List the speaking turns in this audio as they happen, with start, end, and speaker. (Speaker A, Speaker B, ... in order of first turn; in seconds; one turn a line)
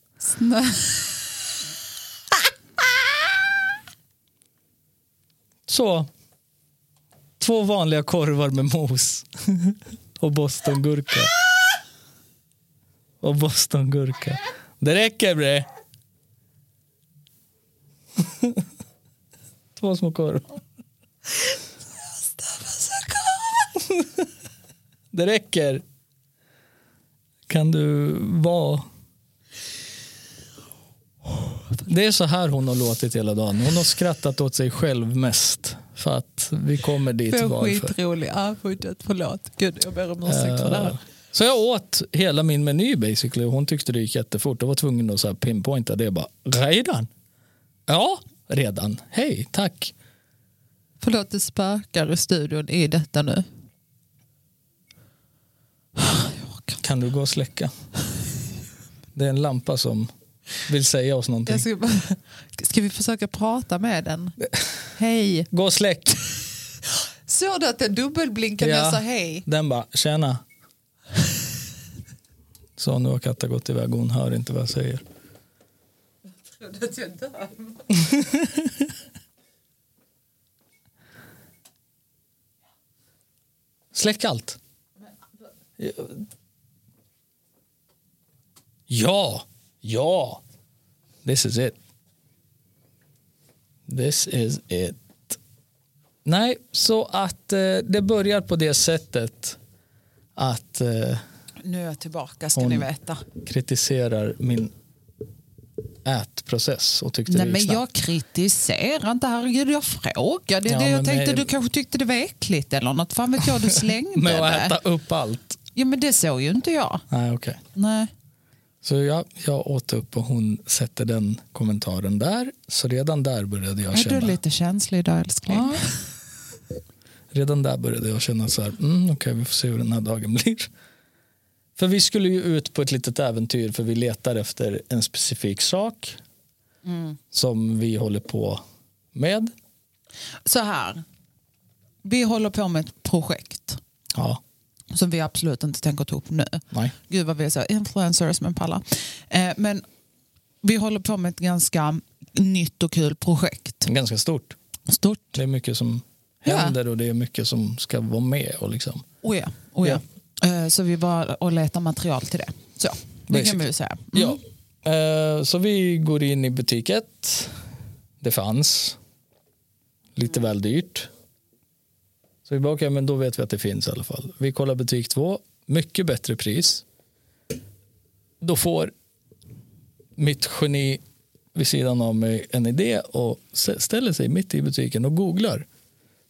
Speaker A: 0.2-1.1
Speaker B: 5.7-6.1
Speaker B: 7.4-11.3
Speaker B: 13.2-15.7
Speaker B: 18.2-18.7
Speaker B: 19.8-20.6
Speaker A: 22.5-23.4
Speaker B: 23.8-24.3
Speaker B: 25.1-25.8
Speaker B: 27.5-28.9
Speaker B: 31.9-38.0
Speaker A: 37.3-41.0
Speaker B: 40.3-47.1
Speaker B: 47.9-49.9
Speaker A: 51.0-53.5
Speaker A: 56.0-56.8
Speaker B: 56.8-57.7
Speaker B: 59.1-60.1
Speaker B: 60.7-61.6
Speaker A: 61.5-64.4
Speaker A: 65.0-65.5
Speaker B: 65.5-66.2
Speaker A: 67.3-69.4
Speaker B: 68.6-70.4
Speaker B: 72.8-75.0
Speaker A: 76.5-77.9
Speaker B: 77.9-78.9
Speaker B: 83.9-84.6
Speaker B: 85.8-86.2
Speaker B: 88.9-90.4
Speaker B: 91.2-91.8
Speaker B: 93.9-95.4
Speaker B: 96.2-99.6
Speaker B: 100.4-101.2
Speaker A: 101.6-103.2
Speaker B: 102.5-104.7
Speaker B: 106.0-107.8
Speaker A: 107.3-114.8
Speaker B: 110.7-111.5
Speaker B: 114.1-115.6
Speaker A: 115.8-117.0
Speaker B: 117.1-117.6
Speaker A: 117.7-118.1
Speaker B: 118.8-124.4
Speaker A: 123.9-126.0
Speaker B: 125.5-125.9
Speaker B: 127.3-130.7
Speaker B: 131.8-136.2
Speaker A: 136.9-137.1
Speaker B: 137.3-138.6
Speaker B: 139.1-139.5
Speaker A: 140.5-141.0
Speaker A: 142.0-143.8
Speaker B: 144.1-144.4
Speaker A: 144.9-149.8
Speaker A: 150.6-153.9
Speaker B: 153.9-154.6
Speaker A: 154.9-155.4
Speaker B: 155.3-159.1
Speaker A: 156.5-156.8
Speaker A: 159.2-164.4
Speaker B: 163.3-167.6
Speaker B: 168.2-169.0
Speaker B: 170.2-171.1
Speaker B: 172.5-176.8
Speaker B: 178.4-178.9
Speaker B: 180.2-181.0
Speaker B: 181.6-185.7